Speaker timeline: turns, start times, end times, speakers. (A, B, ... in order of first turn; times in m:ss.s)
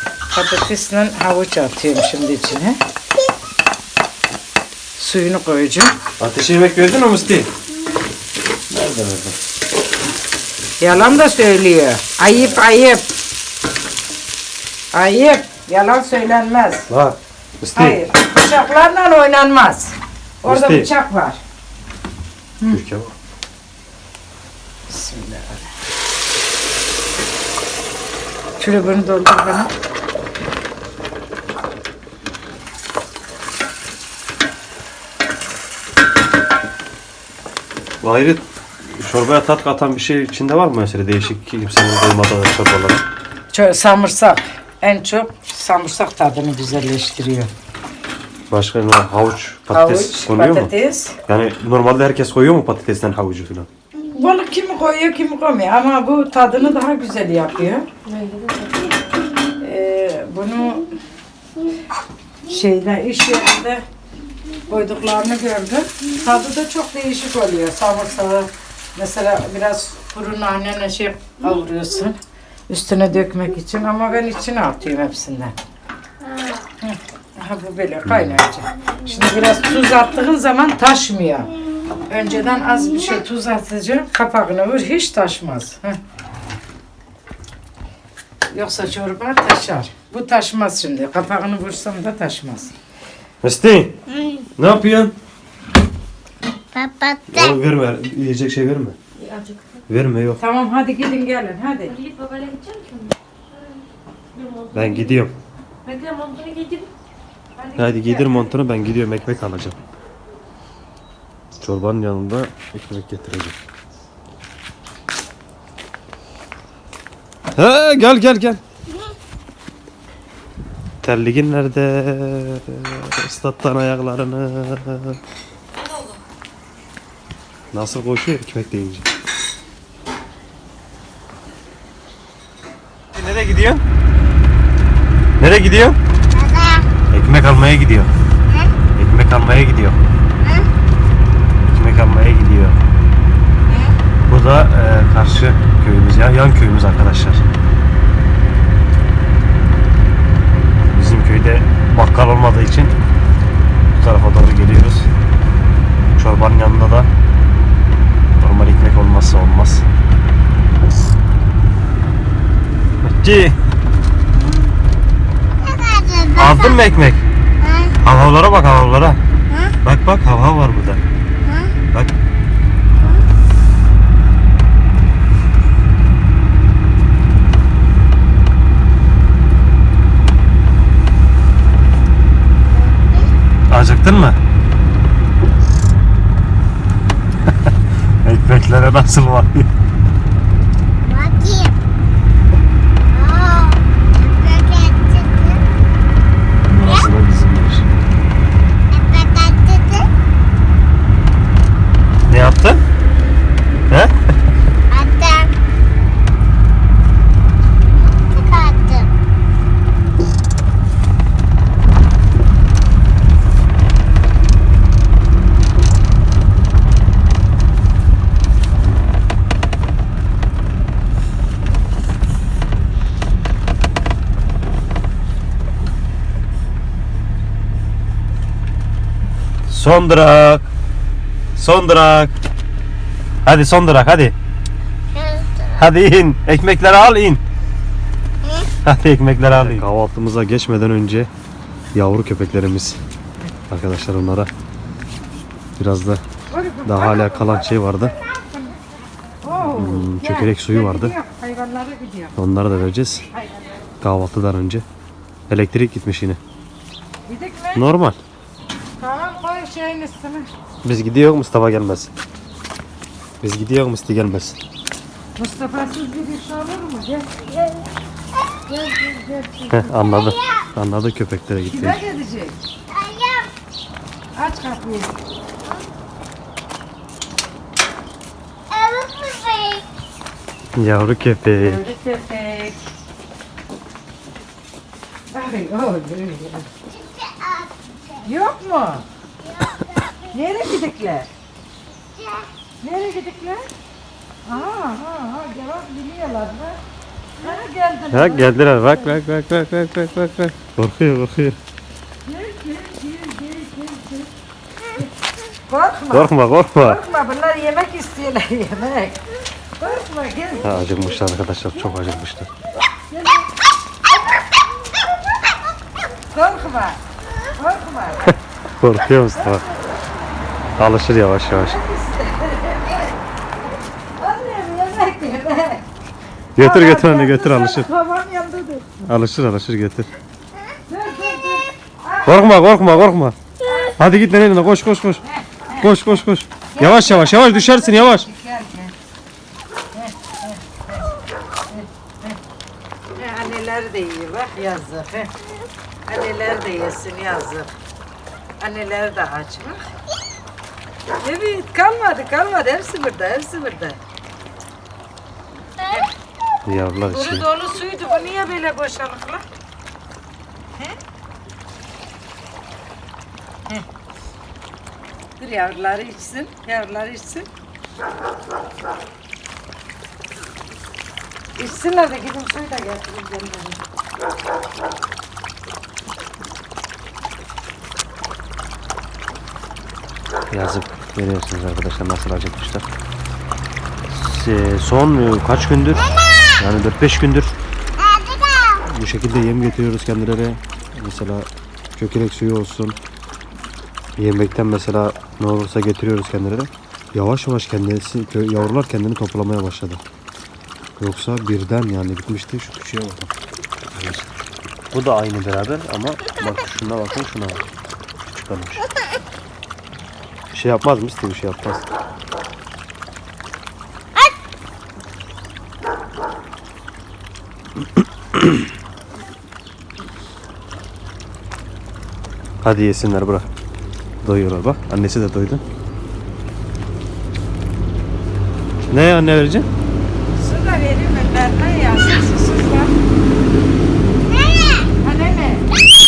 0:00.3-0:02.8 A
0:05.0-0:05.9 A
0:06.2-0:07.5 B
0:08.7-0:09.4 B
0:10.8-0:13.0 A
0:14.9-0:16.9 A
0:16.9-0:18.0 B
0:17.8-0:21.4 A
0:20.5-0:20.9 B
0:22.7-0:23.1 B
0:24.9-0:25.7 A
0:28.6-0:29.7 A
0:38.0-0:43.0 B
0:43.5-0:47.5 A
0:48.5-0:50.7 B
0:49.7-0:51.2 A
0:51.3-0:53.7 B
0:54.1-0:57.9 A
0:58.0-0:59.0 C
0:59.6-1:00.9 A
1:02.5-1:03.8 A
1:04.7-1:12.2 A
1:12.7-1:15.5 A
1:16.8-1:21.5 A
1:18.0-1:18.4 B
1:22.1-1:26.0 A
1:28.5-1:32.7 A
1:33.4-1:34.0 B
1:34.1-1:34.4 D
1:34.6-1:35.1 B
1:36.7-1:37.6 D
1:37.3-1:39.0 B
1:39.2-1:39.8 C
1:39.9-1:40.4 B
1:40.4-1:42.0 A
1:41.9-1:43.2 C
1:44.3-1:45.3 C
1:44.7-1:45.3 B
1:45.8-1:46.9 C
1:47.6-1:48.5 A
1:47.8-1:49.8 B
1:51.6-1:53.6 B
1:57.6-1:58.6 B
2:01.0-2:05.2 B
2:07.7-2:09.0 B
2:13.1-2:13.8 B
2:15.4-2:16.0 B
2:16.3-2:16.9 D
2:17.1-2:18.1 B
2:18.5-2:18.7 D
2:19.0-2:20.0 B
2:20.4-2:20.7 D
2:21.6-2:22.8 B
2:23.7-2:23.9 D
2:24.3-2:27.4 B
2:30.9-2:32.9 B
2:33.9-2:35.1 B
2:36.1-2:37.1 B
2:38.4-2:39.8 B
2:43.0-2:43.6 B
2:44.4-2:44.7 D
2:45.6-2:46.9 D
2:46.4-2:47.2 B
2:47.6-2:48.0 D
2:48.0-2:49.2 B
2:49.5-2:49.7 D
2:49.8-2:51.0 B
2:51.4-2:51.7 D
2:53.0-2:53.2 D
3:02.7-3:03.3 D
3:03.7-3:04.4 B
3:08.2-3:09.7 B
3:11.1-3:11.8 D
3:13.1-3:15.6 D
3:16.7-3:18.0 B
3:16.8-3:17.1 D
3:18.9-3:20.1 D
3:22.3-3:22.8 B
3:24.9-3:25.5 D
3:27.9-3:29.1 D
3:49.7-3:50.7 B
3:51.6-3:52.4 B
3:53.4-3:54.4 B
3:55.1-3:55.7 D
3:55.7-3:57.4 B
3:58.8-4:01.3 B
4:01.9-4:03.0 B
4:03.7-4:04.5 B
4:05.8-4:06.2 B
4:06.5-4:08.8 A
4:06.9-4:08.2 B
4:09.4-4:12.4 A
4:09.5-4:11.2 B
4:12.4-4:13.2 B
4:13.3-4:13.9 A
4:14.0-4:14.8 B
4:15.5-4:16.4 B
4:17.3-4:17.8 A
4:17.8-4:18.2 B
4:19.0-4:20.5 A
4:20.8-4:22.1 B
4:23.4-4:24.6 B
4:25.4-4:27.5 A
4:28.7-4:29.9 A
4:29.7-4:32.0 B
4:29.9-4:30.7 D
4:31.7-4:32.6 A
4:32.9-4:33.5 D
4:34.4-4:35.1 A
4:38.7-4:39.9 D
4:40.8-4:41.8 B
4:41.6-4:42.8 A
4:45.3-4:46.7 A
4:46.9-4:48.3 D
4:48.2-4:49.1 A
4:49.4-4:50.4 D
4:50.3-4:51.3 A
4:52.1-4:52.5 D
4:52.8-4:53.7 A
4:54.5-4:56.8 A
4:57.4-4:59.2 A
4:58.1-5:01.6 B
5:02.2-5:04.3 A
5:05.7-5:09.2 A
5:06.1-5:07.0 B
5:09.8-5:11.9 A
5:10.6-5:12.5 B
5:13.1-5:13.5 A
5:16.3-5:17.0 A
5:17.5-5:18.3 A
5:18.3-5:19.7 B
5:19.4-5:20.2 A
5:20.8-5:21.8 B
5:21.5-5:23.2 A
5:24.2-5:25.8 A
5:26.6-5:27.9 B
5:26.6-5:28.9 A
5:29.0-5:30.1 B
5:30.9-5:32.6 A
5:32.2-5:33.4 B
5:33.6-5:34.1 A
5:34.0-5:35.2 B
5:35.2-5:35.9 A
5:35.8-5:38.3 B
5:36.7-5:38.9 A
5:39.9-5:41.1 A
5:41.7-5:42.4 A
5:43.2-5:45.3 A
5:46.1-5:47.7 A
5:48.6-5:49.8 A
5:51.2-5:54.0 A
5:56.7-5:57.5 B
5:57.1-5:59.4 A
6:05.4-6:07.5 A
6:11.6-6:13.8 A
6:20.5-6:22.8 B
6:24.1-6:27.6 B
6:26.0-6:26.5 D
6:28.0-6:28.8 D
6:28.9-6:33.0 B
6:34.2-6:40.0 B
6:41.0-6:43.3 B
6:43.9-6:44.3 B
6:44.9-6:47.6 B
6:48.2-6:48.8 B
6:50.5-6:51.9 B
7:02.6-7:03.5 B
7:04.2-7:05.6 B
7:08.9-7:09.7 B
7:10.3-7:12.9 A
7:14.3-7:14.9 D
7:15.0-7:15.7 A